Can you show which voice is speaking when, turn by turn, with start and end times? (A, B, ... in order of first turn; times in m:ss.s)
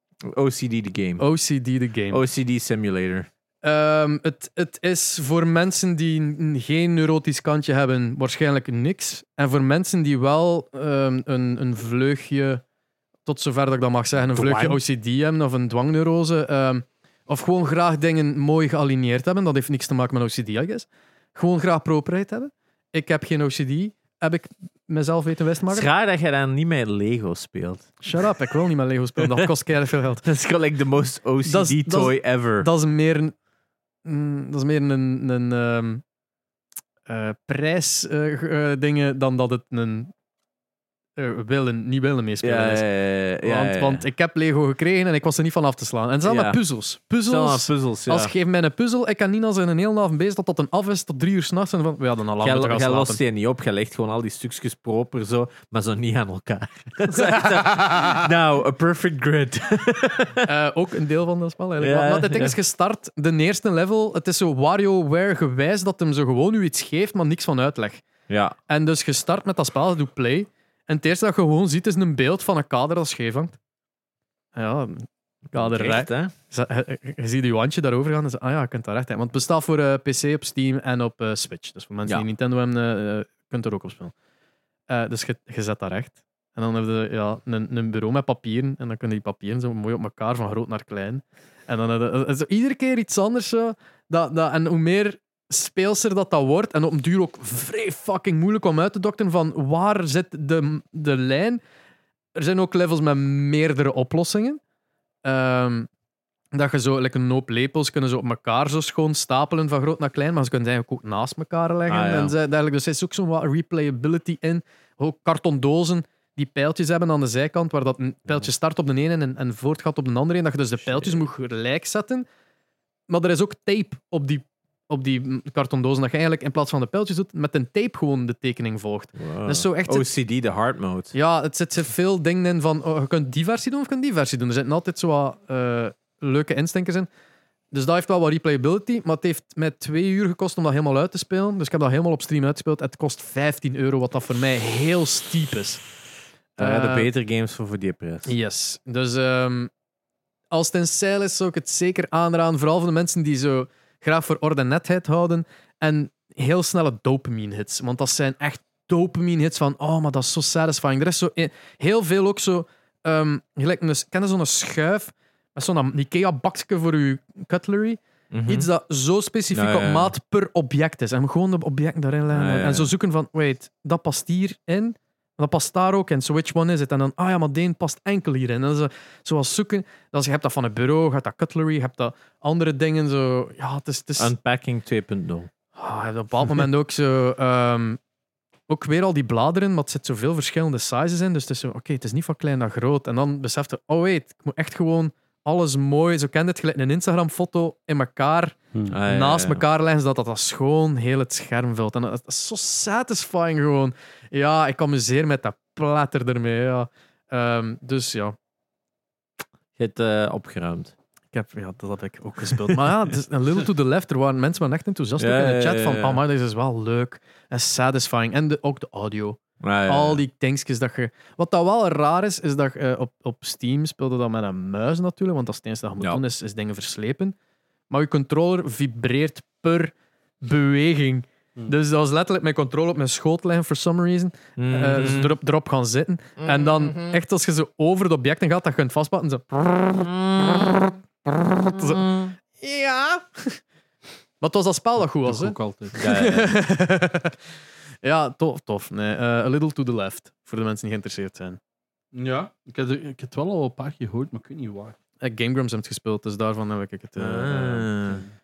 0:00.2-0:01.2 A
0:01.2-0:02.2 B
0:02.1-0:03.3 A
0:03.6-0:12.6 B
0:13.2-0:25.9 B
0:14.2-0:14.8 A
0:25.7-0:28.3 A
0:28.0-0:30.3 B
0:29.2-0:29.5 A
0:30.2-0:32.7 A
0:31.4-0:33.3 B
0:34.0-0:36.0 B
0:37.1-0:40.1 B
0:41.2-0:42.9 B
0:42.4-0:44.0 A
0:43.4-0:53.2 B
0:46.2-0:46.6 A
0:47.3-0:48.3 A
0:52.4-1:00.5 A
0:57.1-0:57.4 B
1:00.4-1:08.0 B
1:01.8-1:02.6 A
1:08.3-1:08.6 A
1:08.7-1:13.6 B
1:14.6-1:24.1 B
1:15.5-1:16.3 A
1:24.9-1:41.6 B
1:42.4-1:44.6 B
1:45.2-1:45.9 B
1:46.5-2:02.3 B
1:51.9-1:52.4 A
2:00.9-2:01.2 A
2:03.1-2:10.1 B
2:09.2-2:11.2 A
2:11.1-2:17.1 B
2:17.7-2:25.8 B
2:26.6-2:27.1 B
2:26.6-2:28.3 A
2:28.2-2:29.7 B
2:30.5-3:04.3 B
2:48.3-2:48.7 A
2:49.5-2:50.1 A
2:52.3-2:52.9 A
3:04.2-3:05.5 A
3:05.8-3:08.0 B
3:08.7-3:28.4 B
3:18.9-3:19.6 A
3:29.8-3:30.9 A
3:31.3-3:47.4 B
3:35.2-3:36.2 A
3:39.6-3:40.2 A
3:47.9-4:03.6 B
3:54.6-3:55.4 A
4:04.4-4:07.4 B
4:05.2-4:06.0 C
4:06.0-4:06.6 A
4:08.0-4:11.6 B
4:12.1-4:15.0 C
4:15.2-4:17.9 B
4:17.2-4:18.2 A